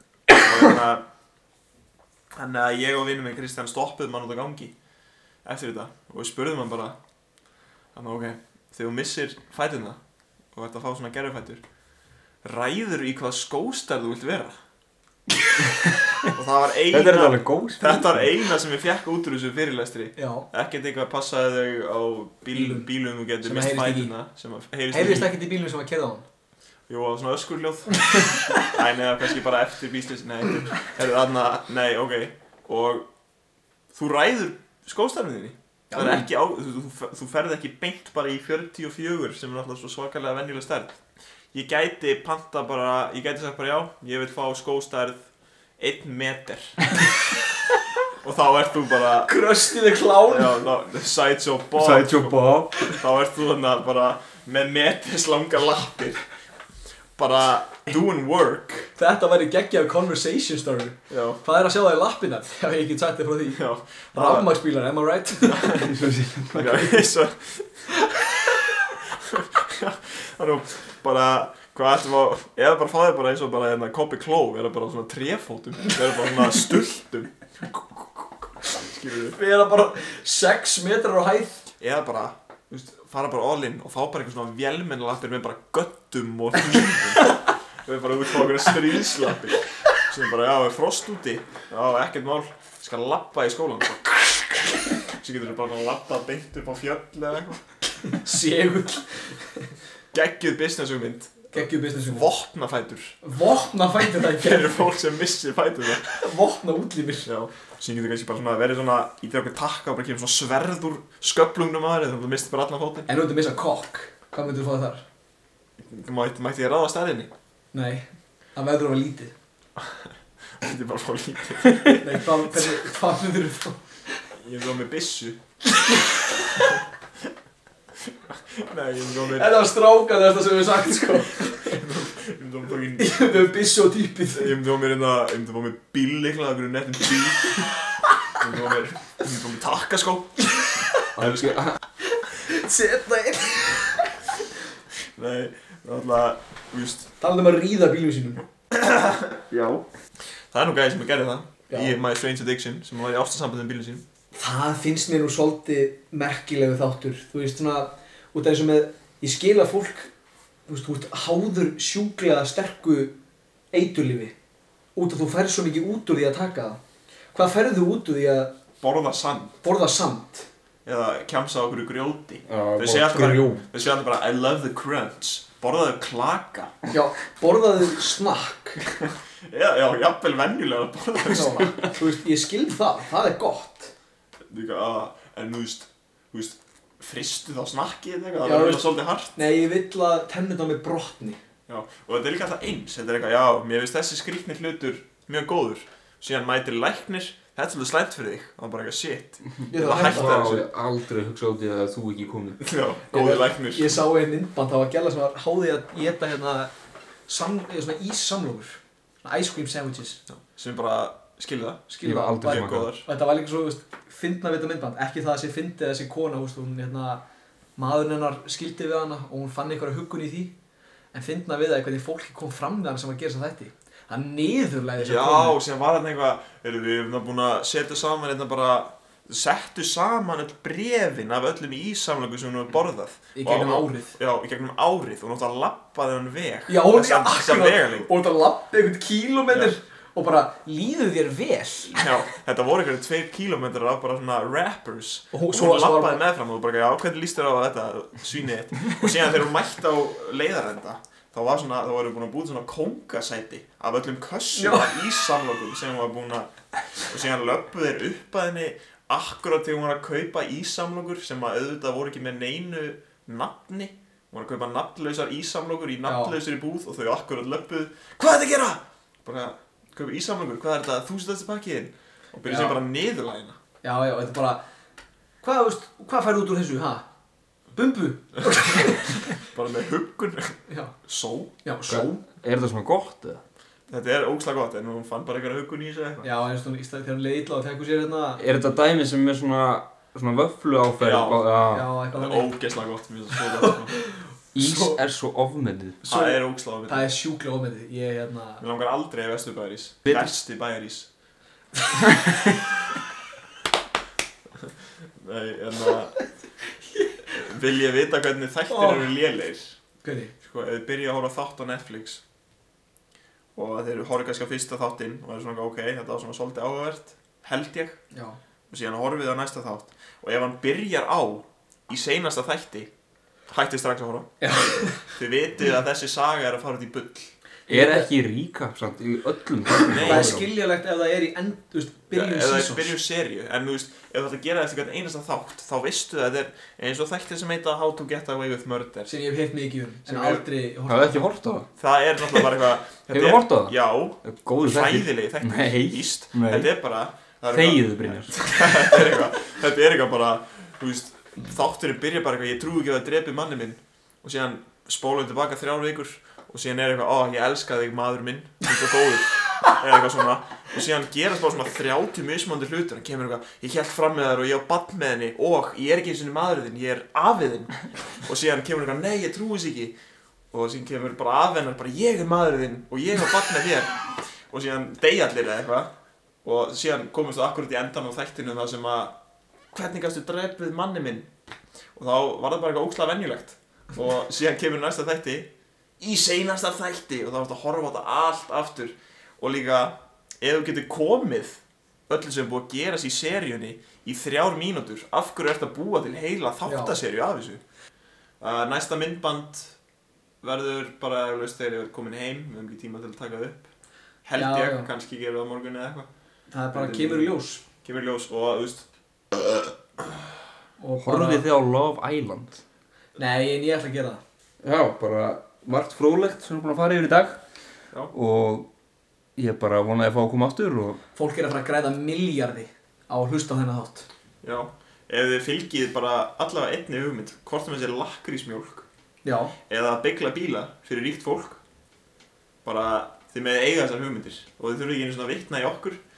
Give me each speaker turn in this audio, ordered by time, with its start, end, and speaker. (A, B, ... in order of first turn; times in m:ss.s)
0:00.3-0:01.0 A
0:02.3-0:04.7 A
0:05.4-0:07.0 A
0:07.9-0:10.0 A
0:10.5-0:11.6 A
0:12.4-0:14.6 A
0:16.3-0:25.3 A
0:16.9-0:18.2 B
0:20.2-0:20.4 C
0:22.5-0:22.9 C
0:23.4-0:24.1 C
0:24.9-0:26.2 C
0:26.9-0:33.1 A
0:28.1-0:28.7 C
0:33.9-0:41.0 A
0:35.9-0:36.2 C
0:41.5-0:45.2 A
0:45.8-0:47.0 A
0:48.2-0:49.3 A
0:49.2-0:50.6 C
0:50.3-0:56.2 A
0:51.8-0:52.7 B
0:57.2-0:58.9 A
0:59.0-1:03.6 C
1:01.1-1:01.4 A
1:03.6-1:04.5 A
1:04.1-1:05.9 C
1:05.4-1:05.9 A
1:05.8-1:06.5 B
1:06.5-1:07.1 C
1:06.5-1:07.9 A
1:08.0-1:08.7 C
1:09.1-1:19.4 A
1:19.3-1:21.6 C
1:21.8-1:37.6 A
1:38.0-1:39.7 C
1:40.1-1:43.2 A
1:41.5-1:42.3 C
1:43.2-1:44.9 C
1:44.4-1:46.2 A
1:46.0-1:47.3 C
1:47.2-1:53.1 A
1:53.1-1:55.0 C
1:55.8-1:57.3 A
1:57.7-1:59.3 C
2:00.6-2:02.7 A
2:02.0-2:04.2 C
2:04.4-2:05.4 A
2:05.8-2:06.7 C
2:08.0-2:09.5 A
2:09.3-2:11.8 C
2:11.6-2:13.4 A
2:13.0-2:14.5 C
2:14.3-2:17.7 A
2:18.3-2:21.8 A
2:20.5-2:21.1 C
2:21.2-2:21.8 B
2:22.1-2:24.2 C
2:25.2-2:27.1 A
2:27.2-2:28.4 C
2:28.7-2:29.8 A
2:30.5-2:34.0 A
2:31.7-2:32.0 C
2:34.3-2:40.1 C
2:40.7-2:43.2 C
2:43.7-2:44.4 C
2:45.0-2:46.8 C
2:47.3-2:48.5 C
2:48.8-2:49.6 A
2:49.6-2:50.5 C
2:50.8-2:56.9 A
2:52.5-2:53.6 B
2:56.9-2:58.8 C
2:59.0-3:01.9 A
3:01.3-3:03.9 C
3:04.5-3:09.3 A
3:08.4-3:11.4 C
3:11.7-3:20.7 A
3:19.7-3:20.4 C
3:19.7-3:22.6 B
3:22.6-3:24.0 A
3:23.1-3:26.7 C
3:27.3-3:30.2 C
3:30.3-3:31.9 A
3:31.9-3:37.2 C
3:32.0-3:32.9 B
3:32.4-3:33.0 A
3:37.8-3:40.5 C
3:41.1-3:45.6 C
3:45.0-3:58.1 A
3:53.3-3:54.1 C
3:56.7-4:02.1 C
4:02.0-4:33.6 A
4:05.3-4:06.2 C
4:14.6-4:15.2 C
4:26.0-4:26.3 C
4:32.5-4:32.8 C
4:33.8-4:34.6 C
4:35.4-4:37.0 C
4:37.7-4:39.3 C
4:38.7-4:41.5 A
4:40.7-4:40.9 C
4:41.6-4:42.2 C
4:41.9-4:43.4 B
4:43.9-4:46.3 A
4:46.2-4:48.4 C
4:48.4-4:51.8 B
4:51.0-4:51.5 A
4:51.7-4:52.5 C
4:52.1-4:54.0 A
4:53.6-4:55.0 C
4:54.5-4:56.0 B
4:56.0-4:57.1 A
4:56.1-4:58.6 C
4:58.6-5:01.1 A
5:04.6-5:06.2 A
5:07.3-5:09.8 A
5:08.7-5:09.1 C
5:10.0-5:10.3 C
5:10.4-5:12.2 A
5:13.6-5:18.0 A
5:18.1-5:18.4 C
5:18.7-5:22.9 A
5:23.5-5:27.3 A
5:24.4-5:25.1 C
5:27.7-5:28.1 C
5:27.7-5:30.5 B
5:29.9-5:30.4 A
5:30.0-5:33.0 C
5:32.1-5:39.1 A
5:39.1-5:41.2 C
5:40.1-5:40.4 A
5:40.9-5:41.7 B
5:41.8-6:09.9 A
5:43.1-5:46.7 B
5:47.5-5:48.3 B
6:10.5-6:15.9 A
6:16.4-6:19.2 A
6:19.7-6:21.3 A
6:22.0-6:37.6 A
6:36.7-6:36.9 C
6:38.4-6:39.7 A
6:40.4-6:43.7 A
6:44.2-6:46.1 A
6:44.4-6:44.9 C
6:46.5-6:47.6 C
6:46.7-6:47.3 A
6:47.8-6:50.2 A
6:50.8-6:51.4 C
6:51.0-6:52.6 B
6:53.2-6:54.2 C
6:54.6-6:57.4 B
6:58.1-6:58.7 B
6:59.4-7:01.0 B
7:01.1-7:04.1 C
7:04.4-7:08.8 A
7:09.2-7:09.5 C
7:09.7-7:11.6 A
7:12.6-7:16.0 A